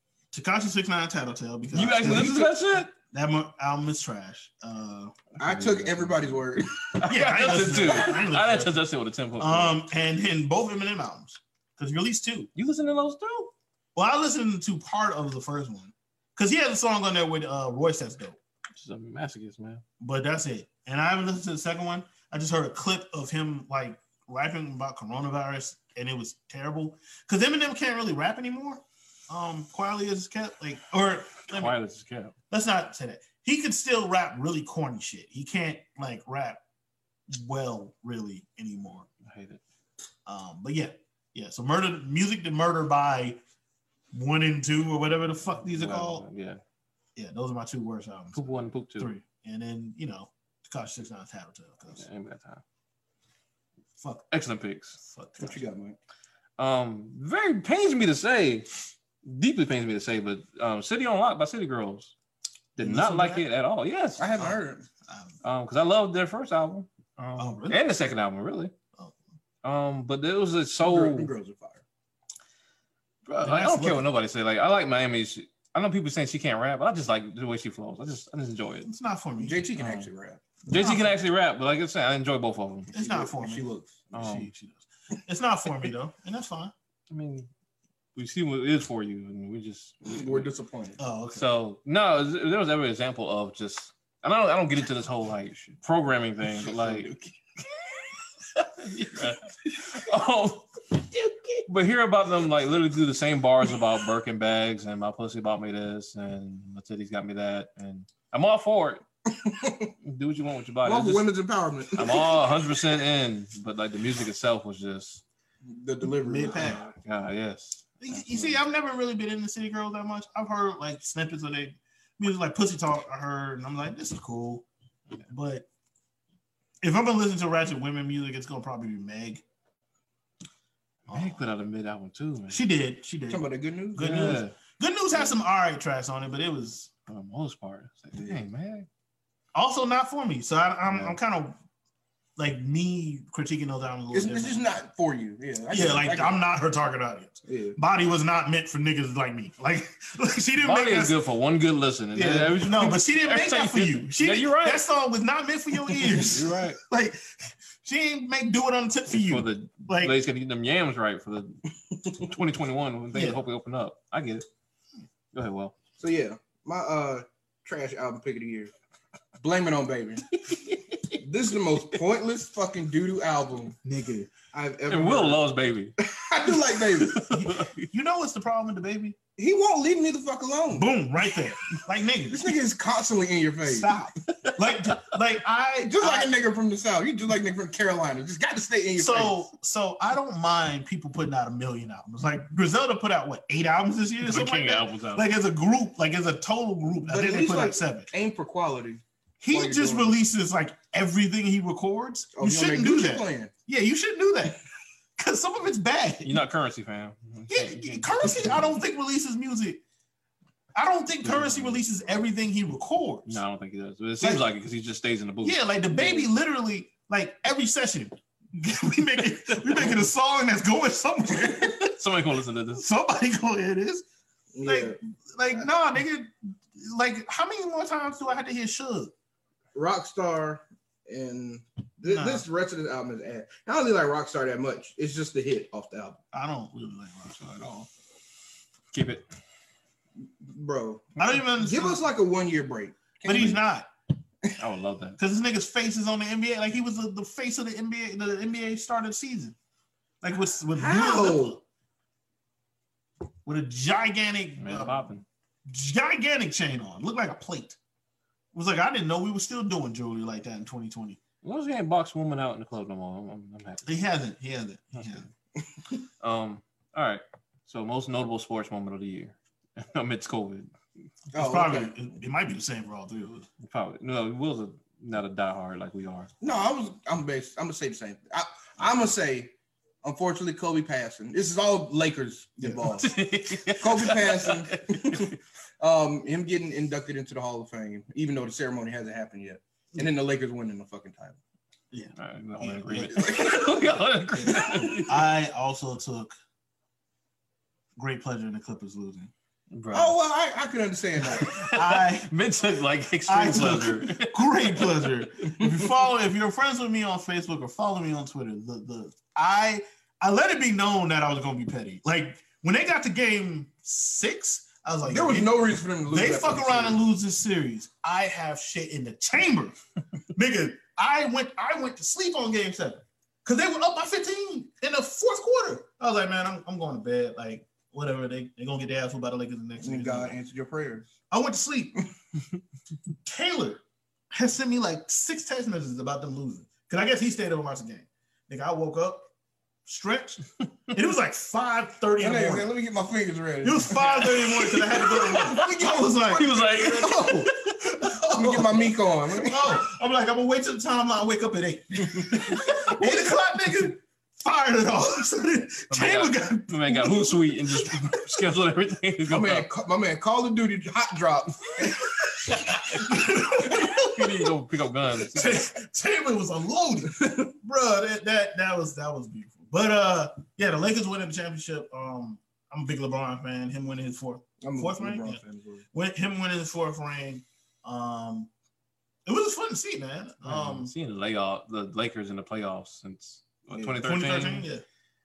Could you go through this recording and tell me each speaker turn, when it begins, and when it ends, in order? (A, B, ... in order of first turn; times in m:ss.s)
0:00.3-0:05.2 A
0:01.7-0:02.9 B
0:02.0-0:02.4 C
0:05.4-0:09.7 B
0:05.4-0:06.9 C
0:07.0-0:08.8 A
0:09.4-0:12.5 A
0:12.6-0:13.5 B
0:14.0-0:18.4 A
0:18.8-0:19.8 B
0:20.0-0:31.8 A
0:31.5-0:32.3 B
0:32.5-0:36.6 A
0:37.3-0:39.1 A
0:39.2-0:39.6 B
0:40.3-0:43.4 A
0:44.1-0:46.2 A
0:45.7-0:46.6 B
0:47.2-0:52.0 A
0:48.3-0:49.2 B
0:52.0-0:52.6 B
0:54.0-0:54.3 A
0:54.3-0:55.0 B
0:55.0-0:55.7 A
0:55.4-0:56.0 C
0:56.6-0:58.7 B
0:59.2-1:02.1 B
1:02.8-1:04.5 B
1:02.8-1:03.4 A
1:04.2-1:04.9 C
1:05.1-1:05.3 A
1:05.4-1:08.7 B
1:07.4-1:07.8 A
1:09.6-1:11.3 B
1:10.8-1:11.8 C
1:13.3-1:18.9 B
1:13.4-1:14.0 A
1:18.8-1:19.6 A
1:19.4-1:20.4 C
1:19.8-1:20.1 B
1:20.7-1:22.9 B
1:20.7-1:21.1 A
1:22.9-1:26.7 A
1:23.0-1:24.0 C
1:24.1-1:24.5 B
1:27.1-1:27.5 B
1:28.2-1:30.5 B
1:30.0-1:31.0 C
1:31.0-1:31.5 A
1:31.3-1:37.1 B
1:36.5-1:37.3 C
1:38.6-1:41.0 B
1:41.7-1:49.0 B
1:49.3-1:49.9 C
1:50.0-1:51.3 B
1:50.8-1:52.6 C
1:52.0-1:55.2 B
1:55.6-1:57.0 C
1:56.2-1:56.8 A
1:57.0-1:58.6 B
1:58.0-2:04.7 A
2:05.3-2:05.7 A
2:06.8-2:09.4 A
2:11.1-2:12.6 B
2:11.1-2:11.4 A
2:12.5-2:16.9 A
2:13.3-2:14.2 C
2:14.0-2:14.6 B
2:17.1-2:18.9 B
2:19.5-2:21.6 A
2:20.9-2:21.2 B
2:22.4-2:24.7 A
2:24.1-2:26.4 C
2:25.7-2:31.2 A
2:27.5-2:27.8 C
2:30.6-2:34.8 B
2:32.2-2:40.2 A
2:36.0-2:36.8 B
2:39.2-2:44.5 B
2:43.1-2:43.4 A
2:45.3-2:45.8 B
2:46.0-2:48.7 C
2:49.4-2:50.3 C
2:51.1-2:53.8 C
2:53.8-2:54.3 A
2:54.5-2:55.4 C
2:54.9-2:55.9 B
2:56.0-2:57.2 C
2:56.8-2:57.8 B
2:57.1-2:59.2 A
2:59.4-3:00.9 C
3:00.7-3:02.6 A
3:02.3-3:03.9 C
3:03.6-3:06.3 A
3:04.3-3:05.0 B
3:05.8-3:09.4 C
3:09.0-3:18.1 A
3:14.2-3:15.2 B
3:17.1-3:20.2 C
3:19.4-3:24.6 A
3:22.4-3:23.5 C
3:25.2-3:26.4 A
3:26.2-3:28.7 B
3:27.5-3:29.8 A
3:30.8-3:33.4 A
3:31.2-3:31.8 B
3:33.3-3:36.2 B
3:35.4-3:42.0 A
3:41.9-3:42.8 B
3:42.8-3:44.0 A
3:44.5-3:45.0 C
3:44.6-3:49.1 A
3:49.8-3:56.2 C
3:52.0-3:52.4 A
3:56.3-3:57.9 A
3:58.9-3:59.3 B
4:00.2-4:03.6 C
4:01.2-4:02.0 A
4:03.2-4:03.9 A
4:04.6-4:05.2 B
4:05.2-4:09.6 A
4:10.2-4:11.6 A
4:10.8-4:11.6 C
4:13.4-4:15.1 A
4:14.6-4:15.2 B
4:15.7-4:17.8 A
4:18.5-4:21.2 A
4:21.4-4:24.0 B
4:23.9-4:25.2 A
4:26.2-4:30.7 B
4:31.3-4:31.9 C
4:31.3-4:33.5 A
4:33.6-4:36.3 B
4:36.4-4:43.2 C
4:42.6-4:42.9 A
4:42.9-4:45.4 B
4:43.7-4:51.4 C
4:51.9-4:53.6 A
4:52.2-4:55.2 B
4:53.1-4:53.7 C
4:54.4-4:56.4 A
4:58.0-4:59.3 A
4:59.7-5:00.2 B
4:59.9-5:01.5 C
5:01.3-5:05.1 B
5:01.4-5:02.3 A
5:03.3-5:19.8 A
5:05.6-5:05.8 C
5:15.1-5:17.0 C
5:20.3-5:30.4 A
5:29.8-5:31.1 C
5:31.3-5:32.0 A
5:33.2-5:39.2 A
5:39.9-5:42.7 A
5:42.2-5:44.2 C
5:43.6-5:58.2 A
5:43.9-5:45.7 B
5:45.3-5:46.5 C
5:46.3-5:47.5 B
5:48.3-5:49.8 C
5:52.1-5:52.4 C
5:55.9-5:59.7 B
5:59.3-6:02.5 C
6:02.5-6:04.5 A
6:02.6-6:05.6 B
6:05.2-6:15.4 A
6:14.6-6:15.8 C
6:15.9-6:18.5 A
6:19.3-6:20.9 A
6:20.4-6:24.7 B
6:23.7-6:24.0 C
6:24.0-6:24.8 A